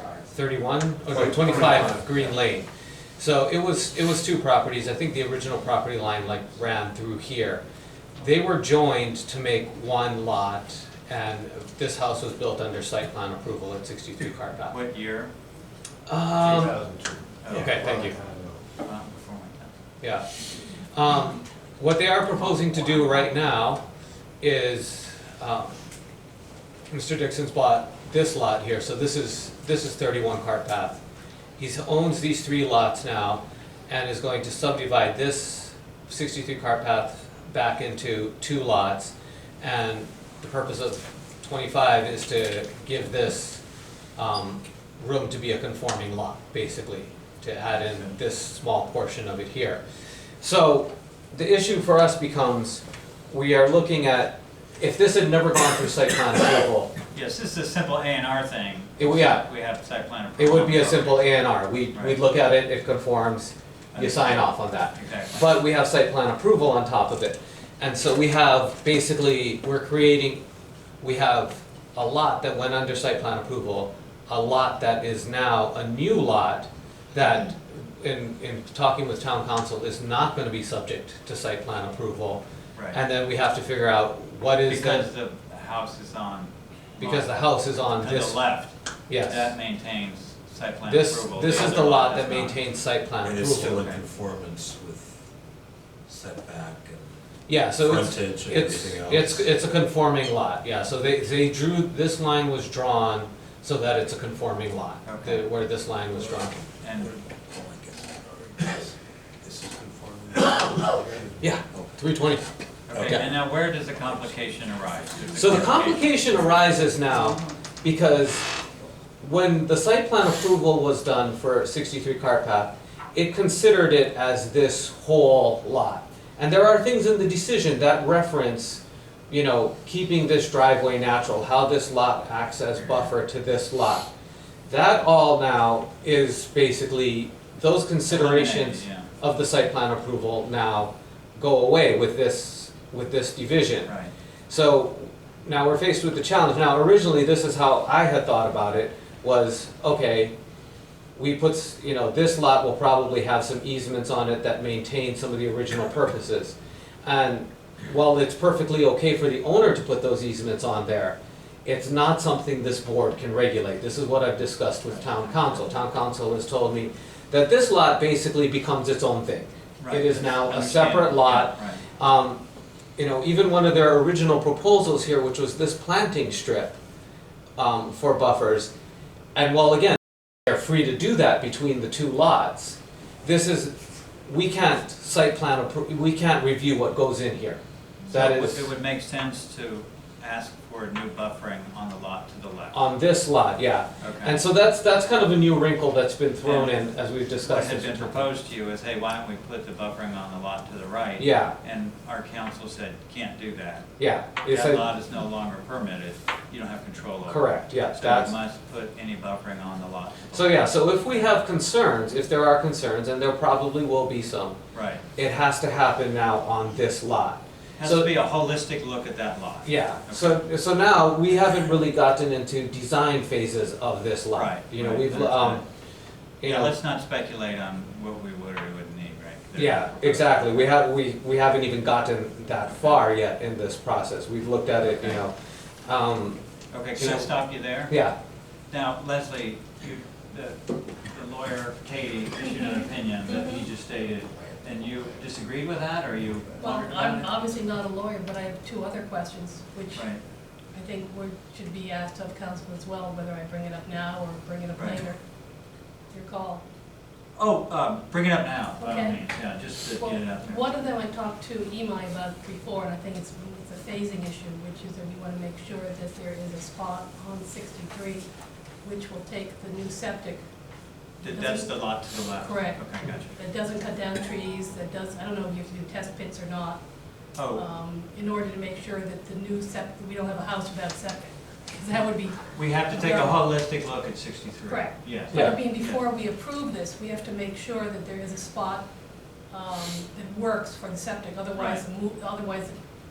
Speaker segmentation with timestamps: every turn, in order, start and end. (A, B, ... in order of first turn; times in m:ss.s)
0:00.3-0:02.7 A
0:01.1-0:02.3 B
0:03.2-0:07.6 A
0:08.2-0:14.8 A
0:14.2-0:15.3 C
0:16.1-0:16.8 A
0:16.4-0:18.6 B
0:17.4-0:17.9 C
0:17.5-0:18.2 A
0:18.8-0:19.7 C
0:20.0-0:20.3 A
0:20.9-0:23.8 A
0:24.4-0:25.7 A
0:26.9-0:31.0 A
0:31.6-0:43.6 A
0:44.2-0:49.8 A
0:50.4-0:56.9 A
0:57.1-1:01.2 C
0:59.0-0:59.4 A
1:00.4-1:10.4 A
1:01.9-1:02.2 C
1:03.9-1:05.4 C
1:11.0-1:22.4 A
1:22.9-1:25.1 A
1:24.7-1:32.6 C
1:27.0-1:28.4 A
1:29.1-1:29.5 A
1:30.8-1:33.8 A
1:33.2-1:35.2 B
1:33.6-1:34.0 C
1:36.1-1:37.1 B
1:37.5-1:46.6 A
1:37.8-1:39.5 B
1:45.0-1:45.4 C
1:46.8-1:47.1 C
1:47.2-1:48.9 B
1:49.4-1:52.0 B
1:51.4-1:53.3 A
1:52.9-1:56.0 C
1:52.9-1:53.4 B
1:55.3-1:58.5 A
1:55.4-1:56.0 B
1:59.2-2:14.1 A
2:14.7-2:23.9 A
2:18.1-2:19.1 C
2:23.8-2:24.1 C
2:24.5-2:30.3 A
2:31.2-2:52.4 A
2:49.8-2:51.8 C
2:53.0-2:56.8 A
2:57.6-2:58.7 A
2:59.3-3:03.7 A
3:04.2-3:07.6 A
3:08.0-3:12.8 C
3:08.1-3:08.7 A
3:12.7-3:18.2 A
3:14.0-3:14.4 C
3:16.4-3:16.9 C
3:17.4-3:23.9 C
3:21.2-3:21.5 A
3:24.0-3:24.8 A
3:24.5-3:30.7 C
3:27.3-3:28.4 A
3:30.3-3:34.6 A
3:34.7-3:35.0 C
3:35.2-3:38.1 A
3:37.8-3:40.4 C
3:39.6-3:45.6 A
3:44.3-3:45.6 C
3:46.4-3:46.7 A
3:46.4-3:50.6 C
3:49.6-3:55.3 A
3:55.8-3:56.4 A
3:56.7-3:57.9 C
3:57.0-3:57.3 A
3:57.8-3:58.2 A
3:58.7-4:07.3 C
4:02.6-4:03.6 D
4:06.6-4:10.1 D
4:09.9-4:10.2 C
4:10.7-4:15.2 D
4:14.7-4:15.1 C
4:16.1-4:16.6 D
4:17.4-4:20.7 C
4:18.8-4:19.2 D
4:19.9-4:28.2 D
4:28.8-4:30.4 D
4:31.2-4:33.4 C
4:31.2-4:36.8 D
4:37.4-4:37.6 C
4:37.5-4:42.4 D
4:42.5-4:46.0 C
4:42.9-4:43.4 D
4:44.7-4:48.9 D
4:45.3-4:45.6 A
4:49.5-4:52.7 D
4:51.5-4:51.8 C